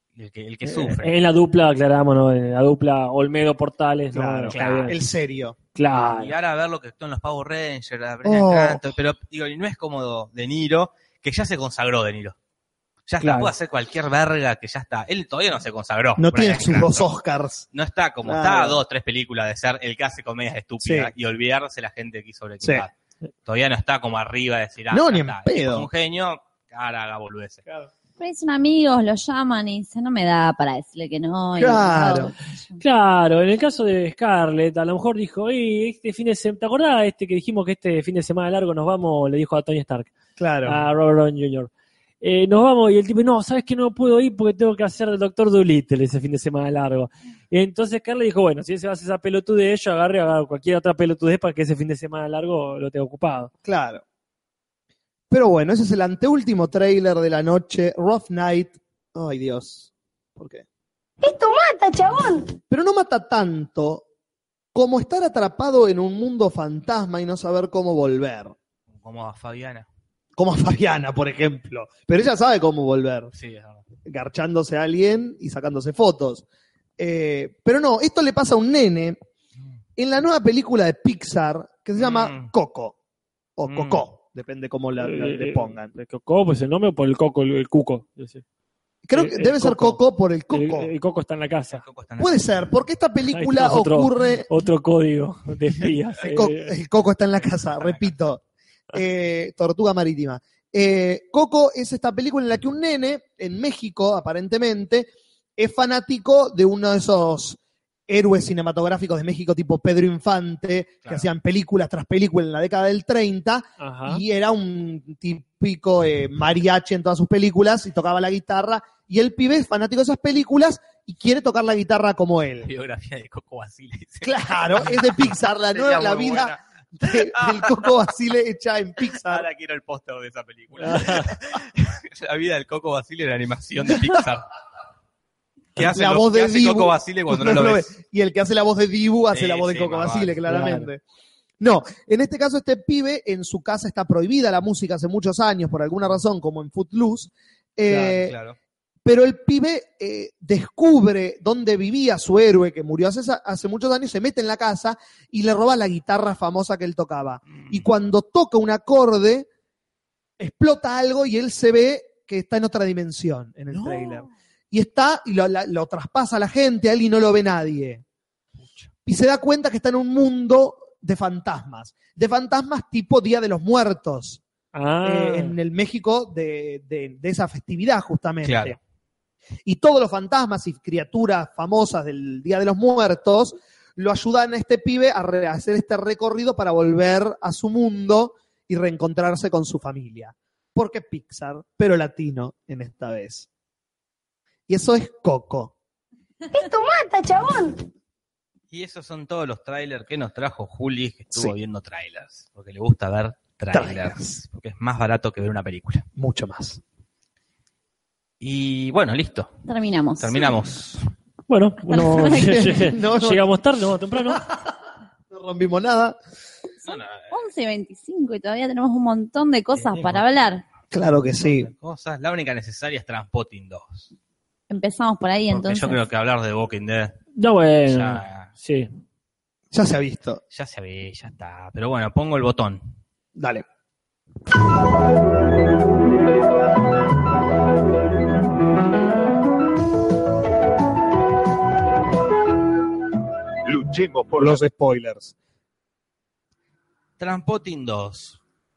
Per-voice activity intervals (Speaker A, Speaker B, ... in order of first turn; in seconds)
Speaker A: 0.2-1.1, 4.5-5.0, 6.1-12.3, 13.1-17.1, 17.7-22.9, 23.5-27.6, 69.0-69.9, 73.3-73.8, 82.0-82.5, 83.7-84.0, 91.7-92.6, 97.8-98.2, 122.6-127.9, 129.2-134.5, 135.8-137.9, 139.3-140.4, 147.9-148.6, 157.6-157.9, 163.7-164.3, 178.4-178.8, 198.7-206.1, 208.4-209.6, 210.2-211.1, 216.8-217.3, 219.7-220.2, 221.4-224.1, 225.5-227.2, 227.9-228.5, 230.5-232.9, 247.2-248.4
Speaker B: 1.0-5.0, 5.8-6.3, 13.2-13.5, 32.8-40.1, 40.6-41.7, 42.2-53.5, 85.0-88.4, 89.2-90.0, 90.5-91.8, 93.3-96.7, 113.8-114.2, 130.8-131.3, 140.5-140.9, 174.7-175.6, 211.5-214.4, 227.4-228.9
Speaker C: 4.1-5.6, 8.2-8.8, 16.2-17.6, 18.2-18.8, 20.8-21.1, 24.9-25.9, 31.6-32.3, 40.4-40.8, 53.6-54.0, 55.3-60.6, 62.7-64.0, 64.7-68.5, 70.4-73.3, 74.1-76.5, 77.0-79.2, 80.0-83.0, 83.6-85.9, 89.0-90.9, 92.2-94.5, 96.2-98.4, 98.9-122.7, 124.2-129.5, 135.8-141.0, 141.6-148.4, 149.1-159.5, 160.4-168.0, 169.1-174.4, 175.0-178.8, 179.7-193.5, 194.7-195.7, 203.7-204.4, 206.2-206.8, 212.3-213.5, 214.3-214.6, 215.3-216.2, 220.9-221.7, 229.7-230.4, 233.4-233.7, 243.7-245.3
Speaker D: 28.2-32.8, 209.7-210.5, 211.9-212.6, 216.9-220.6, 224.7-226.0
Speaker E: 61.2-62.6, 196.5-197.9